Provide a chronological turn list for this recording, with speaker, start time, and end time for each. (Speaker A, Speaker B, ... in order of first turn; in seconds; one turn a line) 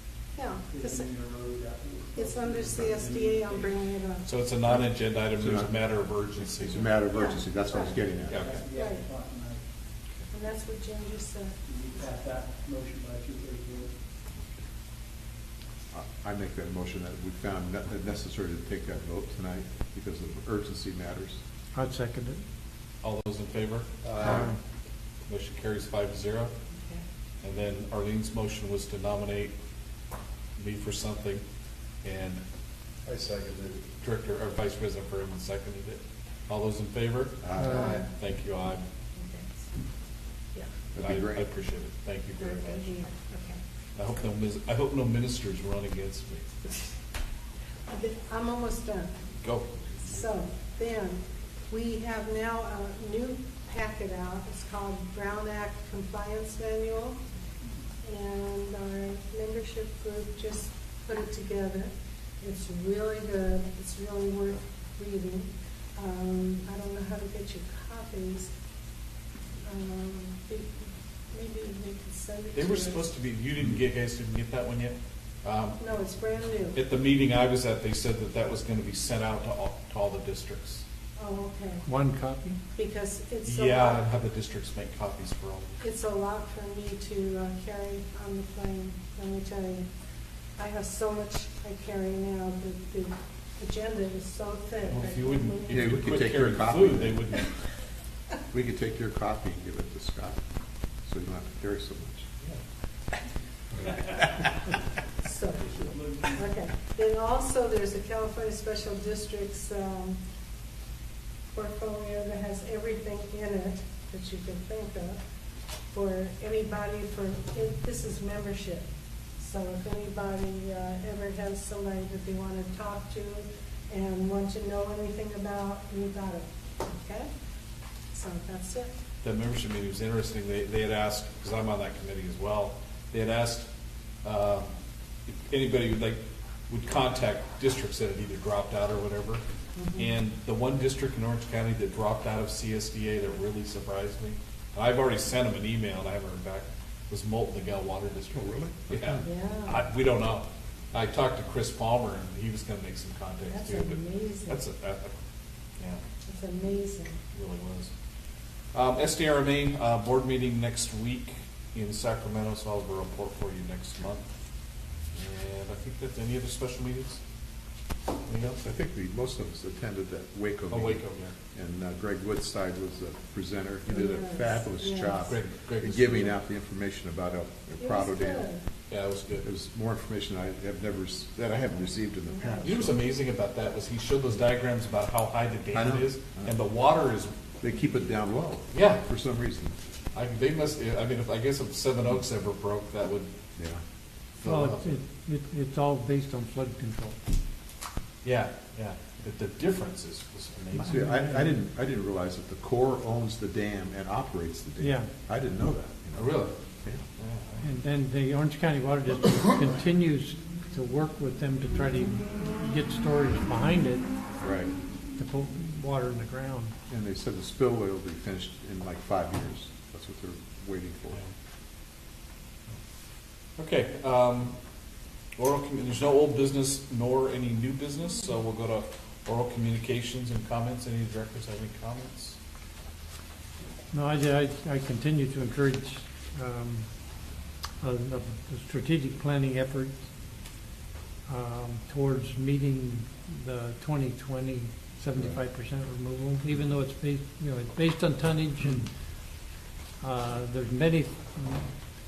Speaker A: 0.3-1.1
Speaker B: 0.7-3.8
Speaker A: 2.1-4.2
Speaker C: 4.2-7.0
Speaker D: 5.4-5.7
Speaker D: 6.6-8.6
Speaker A: 7.0-7.9
Speaker C: 8.2-8.6
Speaker B: 8.3-9.7
Speaker A: 8.7-9.0
Speaker A: 10.3-11.6
Speaker B: 11.6-13.9
Speaker D: 15.9-21.4
Speaker E: 21.7-22.4
Speaker C: 23.0-24.5
Speaker D: 24.0-24.5
Speaker E: 24.2-24.6
Speaker C: 25.3-26.5
Speaker A: 26.7-27.0
Speaker C: 27.4-29.5
Speaker C: 30.6-31.4
Speaker C: 32.0-32.4
Speaker D: 33.0-33.9
Speaker C: 34.0-38.8
Speaker D: 37.4-38.0
Speaker E: 37.6-37.9
Speaker A: 37.6-38.0
Speaker A: 39.1-39.7
Speaker D: 40.9-41.4
Speaker C: 41.0-42.9
Speaker A: 42.4-43.6
Speaker C: 44.0-46.5
Speaker A: 47.9-49.1
Speaker C: 49.4-50.2
Speaker A: 50.0-57.2
Speaker A: 58.0-68.5
Speaker A: 69.6-73.1
Speaker C: 72.5-75.8
Speaker A: 75.8-76.8
Speaker C: 76.7-80.8
Speaker A: 81.2-81.8
Speaker E: 81.8-82.6
Speaker A: 82.7-84.0
Speaker C: 83.4-85.8
Speaker A: 85.8-89.9
Speaker A: 90.6-95.9
Speaker C: 94.8-97.5
Speaker D: 95.7-97.4
Speaker D: 98.5-100.4
Speaker D: 101.0-102.2
Speaker A: 105.2-110.2
Speaker B: 105.6-106.4
Speaker A: 111.5-115.2
Speaker A: 115.9-118.8
Speaker A: 119.4-127.3
Speaker A: 128.1-128.9
Speaker C: 129.2-133.7
Speaker C: 134.2-134.7
Speaker C: 135.3-139.4
Speaker A: 139.7-140.1
Speaker C: 139.9-155.1
Speaker D: 148.3-149.3
Speaker A: 149.2-149.8
Speaker A: 153.5-154.6
Speaker A: 156.3-157.2
Speaker C: 157.3-157.9
Speaker C: 158.7-164.3
Speaker C: 165.1-167.2
Speaker C: 168.2-168.6
Speaker D: 168.4-178.5
Speaker C: 170.7-171.3
Speaker A: 173.9-175.3
Speaker C: 175.3-176.3
Speaker A: 177.8-178.6
Speaker C: 178.9-179.4
Speaker D: 179.4-183.0
Speaker A: 182.3-182.7
Speaker C: 182.6-187.3
Speaker D: 185.7-186.5
Speaker D: 187.6-189.7
Speaker C: 188.7-189.0
Speaker C: 190.1-193.3
Speaker D: 193.6-193.8
Speaker C: 194.4-194.9
Speaker E: 194.4-197.2
Speaker C: 198.2-201.5
Speaker D: 200.8-207.0
Speaker E: 200.9-201.4
Speaker E: 204.8-205.1
Speaker C: 206.2-206.5
Speaker C: 207.2-207.7
Speaker E: 207.6-214.1
Speaker D: 214.4-214.7
Speaker E: 215.2-216.7
Speaker D: 216.9-221.2
Speaker C: 223.6-224.6
Speaker C: 225.4-232.4
Speaker E: 233.9-237.0
Speaker E: 237.8-240.1
Speaker E: 241.3-248.9
Speaker E: 250.0-251.7